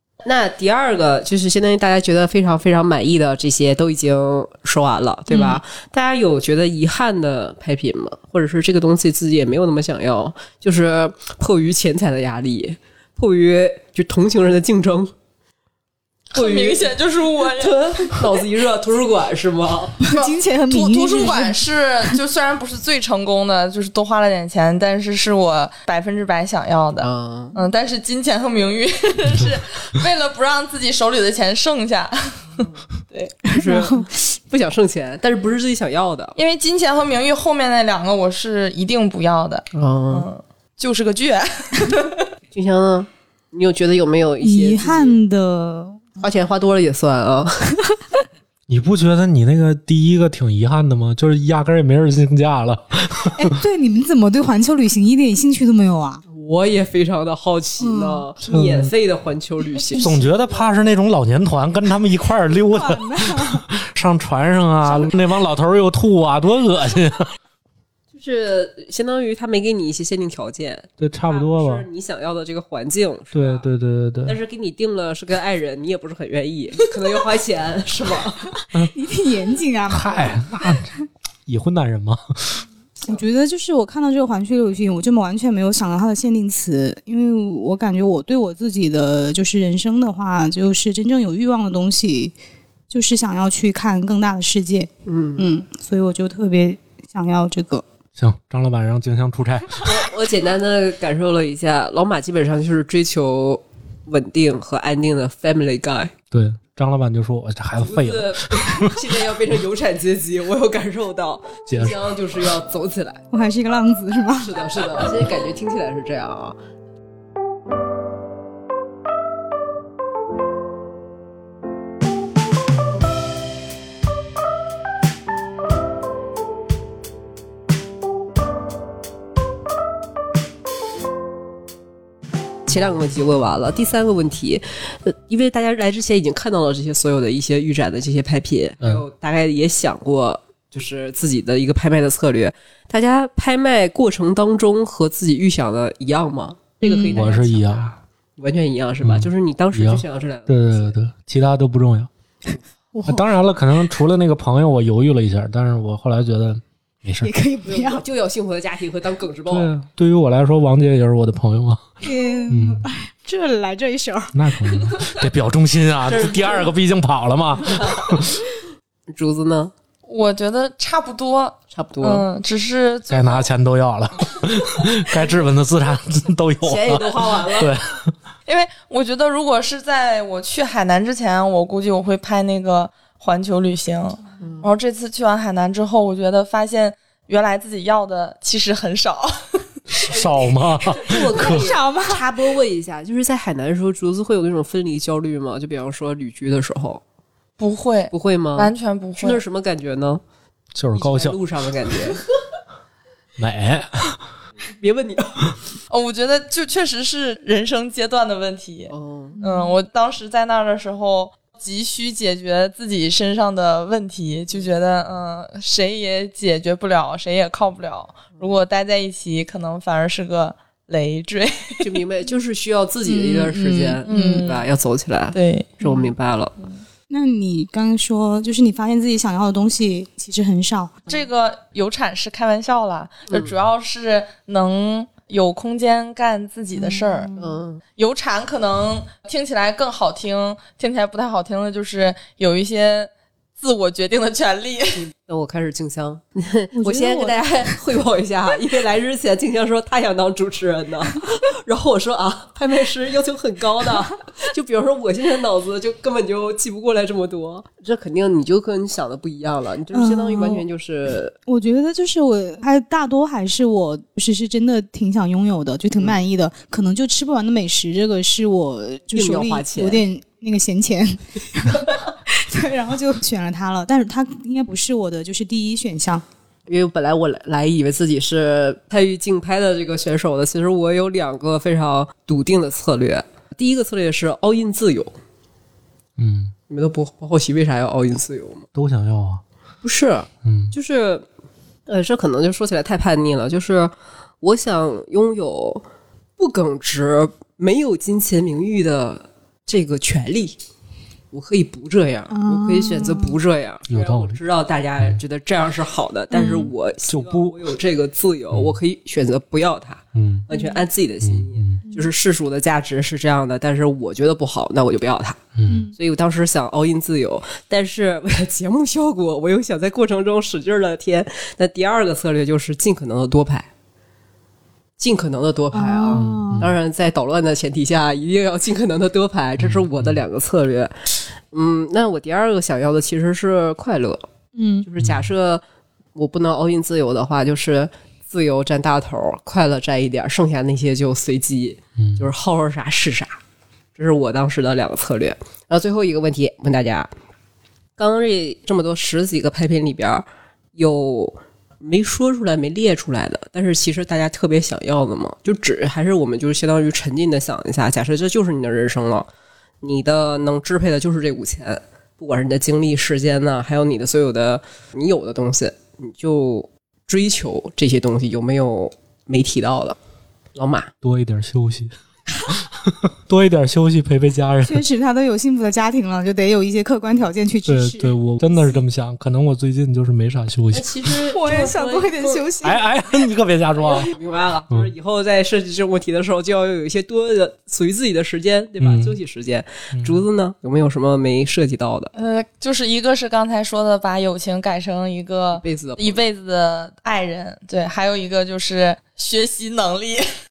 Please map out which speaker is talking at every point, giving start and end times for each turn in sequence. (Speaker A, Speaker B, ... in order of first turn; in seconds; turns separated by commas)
Speaker A: 0.2-15.1, Speaker B: 5.3-5.6, Speaker C: 16.3-18.2, Speaker A: 16.4-20.0, Speaker B: 20.0-21.6, Speaker C: 20.1-33.4, Speaker A: 27.0-27.6, Speaker B: 33.5-34.1, Speaker A: 33.5-36.4, Speaker C: 36.4-42.2, Speaker A: 39.7-40.3, Speaker A: 42.5-45.2, Speaker B: 44.4-46.1, Speaker A: 46.2-47.7, Speaker D: 48.7-53.5, Speaker B: 53.4-56.2, Speaker A: 56.3-60.2, Speaker B: 57.8-58.3, Speaker D: 58.5-58.9, Speaker D: 60.0-67.3, Speaker B: 62.7-63.7, Speaker A: 68.1-73.7, Speaker D: 71.0-71.9, Speaker D: 73.3-74.4, Speaker A: 74.3-78.5, Speaker B: 78.7-80.5, Speaker D: 79.9-80.9, Speaker D: 81.5-82.6, Speaker B: 83.0-92.3, Speaker B: 92.9-97.8, Speaker A: 95.1-95.5, Speaker D: 98.2-99.9, Speaker A: 99.8-106.1, Speaker D: 106.3-109.1, Speaker A: 107.8-113.2, Speaker D: 111.7-112.1, Speaker B: 113.3-114.5, Speaker A: 114.4-116.6, Speaker A: 132.7-150.9, Speaker B: 146.8-147.3, Speaker D: 147.1-147.9, Speaker D: 149.0-152.1, Speaker B: 152.9-153.2, Speaker D: 153.1-157.3, Speaker B: 157.2-158.0, Speaker A: 157.7-159.7, Speaker D: 159.5-161.8, Speaker B: 162.0-164.4, Speaker D: 162.5-162.8, Speaker D: 164.3-168.4, Speaker A: 166.1-166.7, Speaker A: 167.6-168.3, Speaker A: 169.1-169.7, Speaker C: 170.1-173.5, Speaker A: 171.7-172.3, Speaker D: 173.1-178.1, Speaker A: 176.6-177.7, Speaker C: 178.5-189.6, Speaker A: 184.4-184.7, Speaker D: 190.0-191.7, Speaker A: 190.1-197.0, Speaker B: 191.3-192.2, Speaker C: 197.6-199.4, Speaker A: 198.1-200.2, Speaker D: 200.8-201.4, Speaker A: 200.9-202.2, Speaker D: 203.4-204.2, Speaker A: 204.7-205.5, Speaker C: 205.9-222.0, Speaker A: 208.9-209.4, Speaker B: 209.4-209.8, Speaker A: 221.8-226.6, Speaker B: 223.1-224.5, Speaker C: 224.1-224.7, Speaker C: 225.3-225.9, Speaker B: 227.1-231.0, Speaker C: 231.1-237.3, Speaker B: 236.8-237.6, Speaker A: 237.4-237.8, Speaker C: 238.0-245.0, Speaker A: 245.0-261.4, Speaker B: 246.7-247.8, Speaker B: 259.9-260.6, Speaker B: 261.5-276.2, Speaker A: 269.1-270.0, Speaker A: 276.7-285.1, Speaker D: 286.2-286.5, Speaker A: 286.7-288.7, Speaker D: 288.7-289.4, Speaker A: 289.8-291.2, Speaker D: 290.4-290.7, Speaker A: 291.9-295.9, Speaker A: 296.4-300.6, Speaker A: 301.3-315.4, Speaker B: 302.3-303.4, Speaker D: 303.9-304.4, Speaker B: 306.3-306.7, Speaker D: 307.1-307.6, Speaker D: 308.5-308.8, Speaker D: 310.1-310.5, Speaker B: 310.5-310.8, Speaker D: 311.2-311.8, Speaker D: 315.6-315.9, Speaker B: 315.7-315.9, Speaker A: 315.9-323.7, Speaker A: 325.0-334.3, Speaker B: 325.7-326.7, Speaker D: 326.1-326.8, Speaker D: 329.6-330.2, Speaker B: 334.6-334.9, Speaker A: 334.8-335.6, Speaker D: 335.0-335.3, Speaker A: 336.1-343.4, Speaker D: 342.0-342.3, Speaker A: 343.9-347.1, Speaker A: 348.0-359.3, Speaker A: 359.8-370.0, Speaker A: 370.6-370.9, Speaker D: 371.0-371.9, Speaker D: 372.6-374.9, Speaker B: 374.6-378.8, Speaker D: 377.7-381.1, Speaker A: 380.7-382.5, Speaker B: 381.3-382.9, Speaker D: 382.6-384.1, Speaker A: 383.8-392.1, Speaker D: 388.8-389.2, Speaker D: 389.9-390.2, Speaker C: 392.1-400.3, Speaker A: 395.5-396.2